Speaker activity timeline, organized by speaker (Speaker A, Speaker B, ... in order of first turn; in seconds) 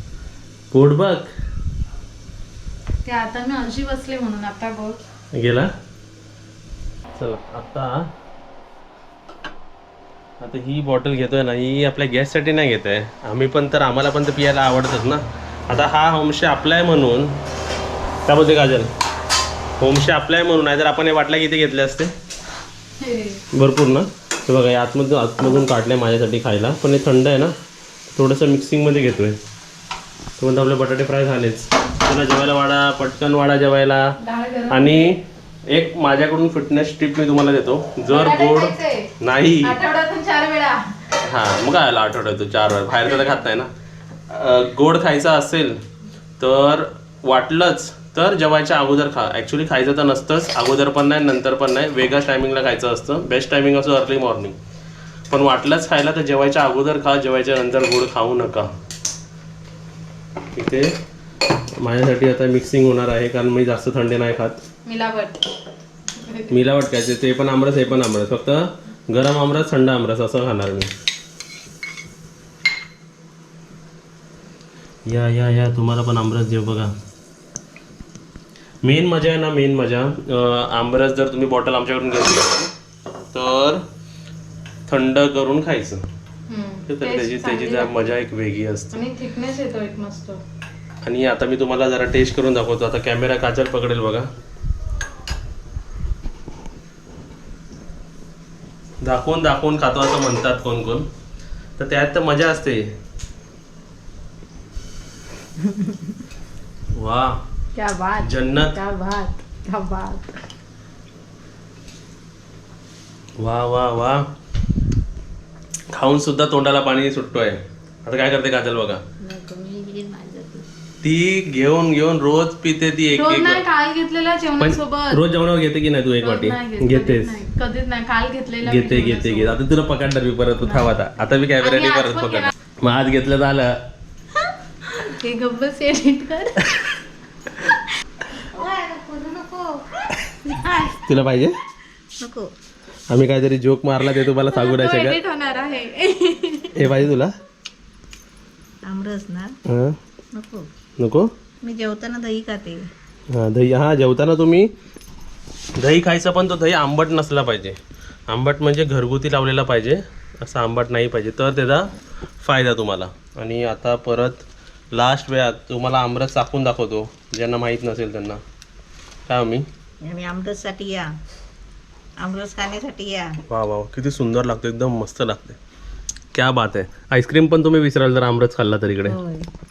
Speaker A: 0.7-1.3, 5.3-5.7, 7.1-8.1, 10.4-17.4, 18.2-18.9, 19.8-22.1, 23.5-27.6, 28.1-29.4, 30.4-34.2, 34.7-39.8, 41.2-43.7, 44.3-45.8, 46.4-54.6, 55.3-58.7, 60.5-61.0, 61.8-64.6, 66.5-70.9, 75.0-76.9, 78.8-82.7, 83.3-83.8, 84.9-86.0, 86.9-89.0, 91.0-94.3, 99.0-101.1, 101.8-102.9, 106.9-107.4, 108.2-108.8, 113.4-114.3, 115.9-119.0, 121.0-123.6, 124.6-127.4, 128.6-133.8, 140.9-141.6, 143.1-145.2, 146.7-147.3, 149.7-150.0, 151.0-151.3, 153.3-154.7, 155.8-157.8, 158.3-168.4, 169.3-169.7, 173.5-175.6, 176.3-179.2
Speaker B: 3.0-5.0, 23.0-23.4, 34.2-35.1, 38.1-39.1, 39.6-40.9, 64.8-65.4, 86.5-87.9, 88.9-90.4, 107.7-110.4, 123.1-125.2, 126.2-129.6, 130.6-130.9, 131.6-132.5, 134.8-136.6, 140.5-141.0, 144.4-146.8
Speaker C: 138.4-140.0, 142.2-142.5, 148.8-149.6, 150.3-150.7, 151.6-152.9, 170.0-171.1, 172.2-173.4, 179.0-179.5